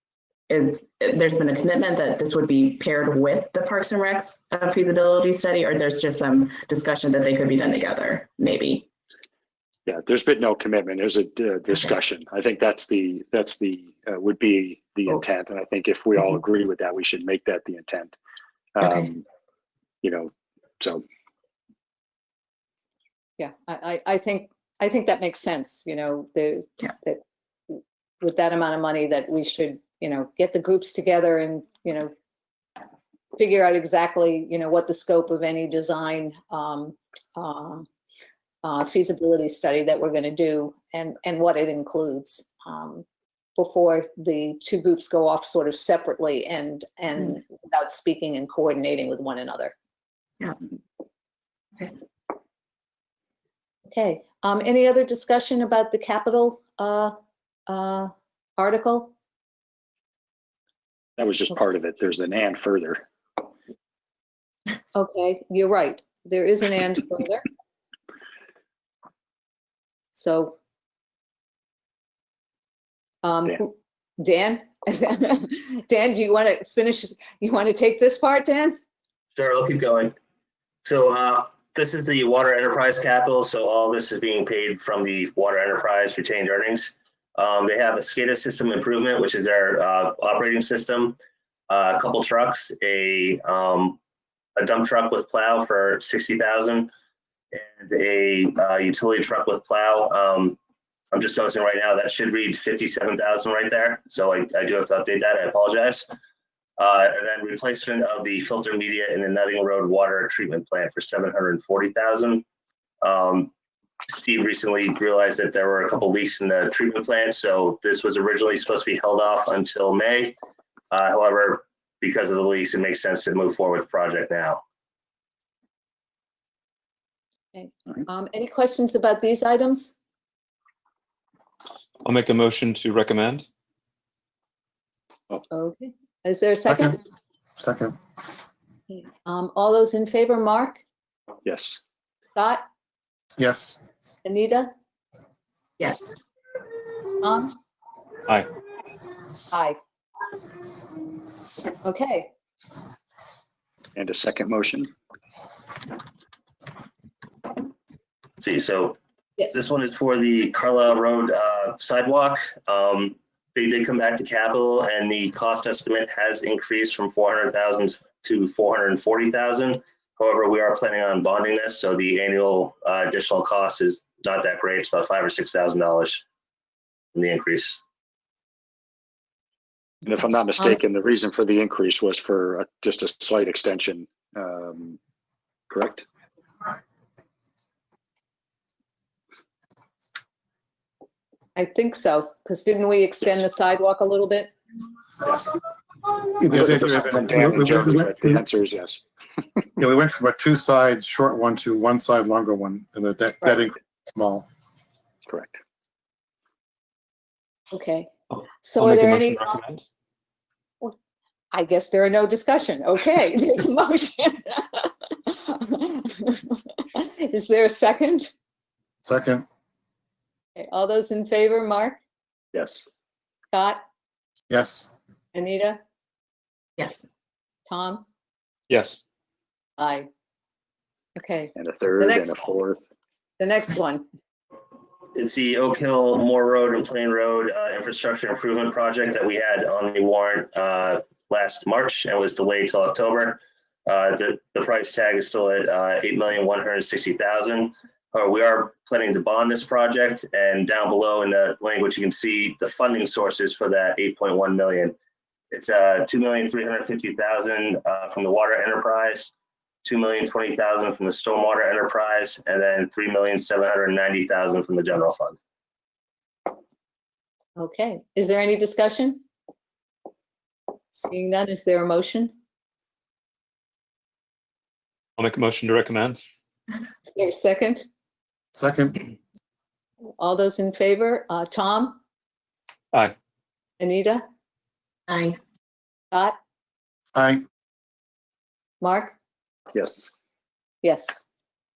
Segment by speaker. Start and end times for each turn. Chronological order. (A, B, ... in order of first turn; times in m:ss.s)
0:00.5-0:08.9 A
0:09.9-0:18.2 B
0:11.7-0:12.0 A
0:18.8-0:19.2 B
0:18.8-0:19.1 A
0:20.0-0:21.0 B
0:23.4-0:32.1 C
0:33.4-0:37.9 C
0:38.6-0:43.0 C
0:43.6-0:49.7 C
0:53.9-0:57.2 C
0:57.7-0:59.1 C
1:01.2-1:03.1 B
1:04.9-1:07.4 C
1:10.1-1:10.6 C
1:13.2-1:18.8 C
1:19.4-1:20.2 D
1:20.8-1:31.2 D
1:31.7-1:34.0 D
1:34.6-1:36.9 D
1:37.5-1:40.6 D
1:41.1-1:46.1 D
1:46.8-1:52.4 D
1:53.0-1:53.5 D
1:54.1-2:00.4 D
2:00.9-2:04.6 D
2:07.5-2:10.0 C
2:12.0-2:13.4 E
2:15.5-2:17.0 C
2:16.7-2:17.0 F
2:17.6-2:18.0 F
2:19.2-2:20.8 C
2:21.4-2:21.8 B
2:22.4-2:22.6 C
2:23.4-2:23.8 F
2:24.2-2:24.7 C
2:25.8-2:26.1 A
2:27.2-2:27.5 C
2:29.5-2:29.8 C
2:31.8-2:32.3 C
2:34.0-2:34.9 B
2:38.4-2:39.0 D
2:39.5-2:56.2 D
2:57.1-2:57.8 D
3:00.0-3:05.0 B
3:05.7-3:06.1 B
3:11.6-3:14.5 C
3:16.4-3:18.4 F
3:16.5-3:19.0 B
3:19.8-3:24.5 F
3:25.2-3:25.6 B
3:27.7-3:28.1 C
3:28.6-3:29.6 C
3:28.8-3:29.8 E
3:31.5-3:38.3 C
3:39.0-3:39.5 F
3:40.6-3:42.0 C
3:42.5-3:42.9 B
3:43.5-3:43.8 C
3:44.5-3:44.9 F
3:45.3-3:45.8 C
3:47.7-3:48.1 C
3:48.7-3:49.0 E
3:49.8-3:50.1 C
3:51.2-3:52.5 C
3:51.6-3:52.8 B
3:53.4-3:54.1 C
3:55.1-4:15.0 D
4:15.5-4:19.3 D
4:19.8-4:25.4 D
4:27.6-4:29.2 C
4:30.9-4:32.3 C
4:35.2-4:36.2 E
4:37.1-4:37.9 C
4:38.5-4:39.1 F
4:40.2-4:42.0 C
4:43.8-4:44.2 C
4:45.1-4:45.4 A
4:46.1-4:46.4 C
4:47.2-4:47.4 F
4:48.8-4:49.2 C
4:49.7-4:50.1 B
4:50.8-4:51.2 C